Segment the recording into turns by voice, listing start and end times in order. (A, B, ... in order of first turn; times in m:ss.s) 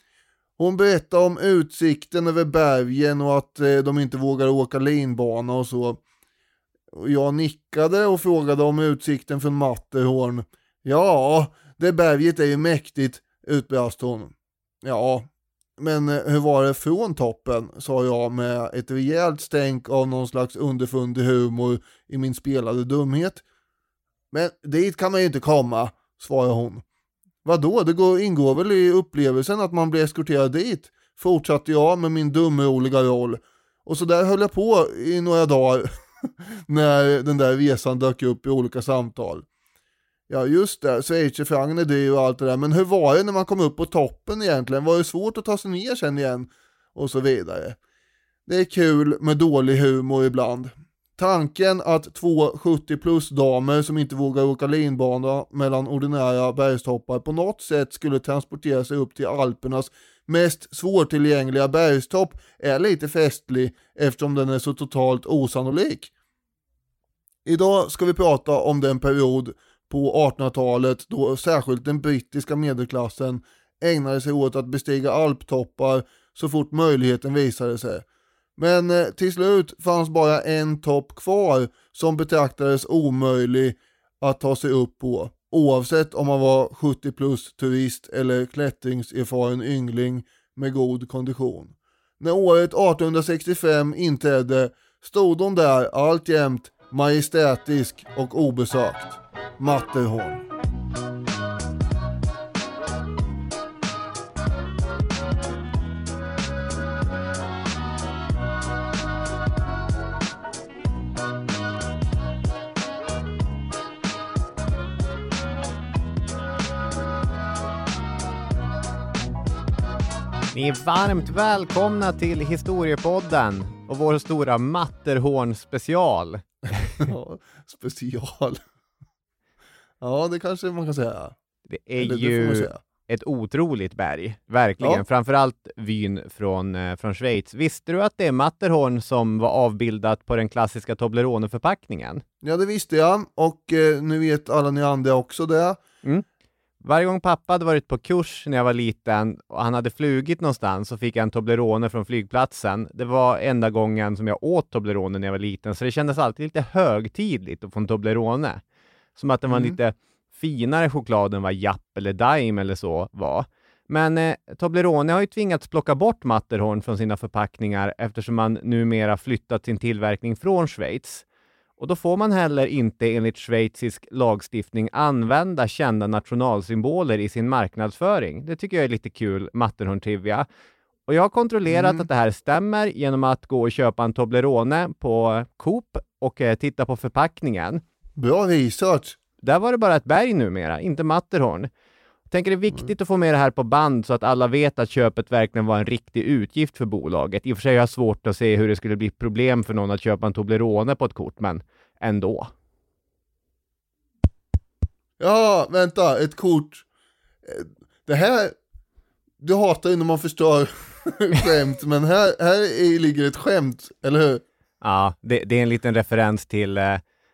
0:00.6-0:06.0 A
0:06.9-0:15.3 A
0:15.8-0:23.4 A
0:24.3-0:26.8 A
0:27.4-0:39.4 A
0:40.3-0:47.8 A
0:48.5-1:06.1 A
1:07.4-1:18.0 A
1:18.6-1:40.4 A
2:00.5-2:07.0 B
2:07.0-2:08.6 A
2:10.0-2:11.3 A
2:11.7-2:22.2 B
2:12.0-2:12.8 A
2:22.4-2:25.8 A
2:26.8-2:38.6 B
2:39.2-2:51.2 B
2:39.5-2:39.8 A
2:51.8-3:00.4 B
3:01.1-3:07.8 B
3:01.7-3:02.1 A
3:08.2-3:09.2 A
3:09.4-3:11.7 B
3:12.3-3:22.5 B
3:25.2-3:26.8 A
3:27.4-3:28.6 A
3:29.4-3:34.4 A
3:34.8-3:37.0 B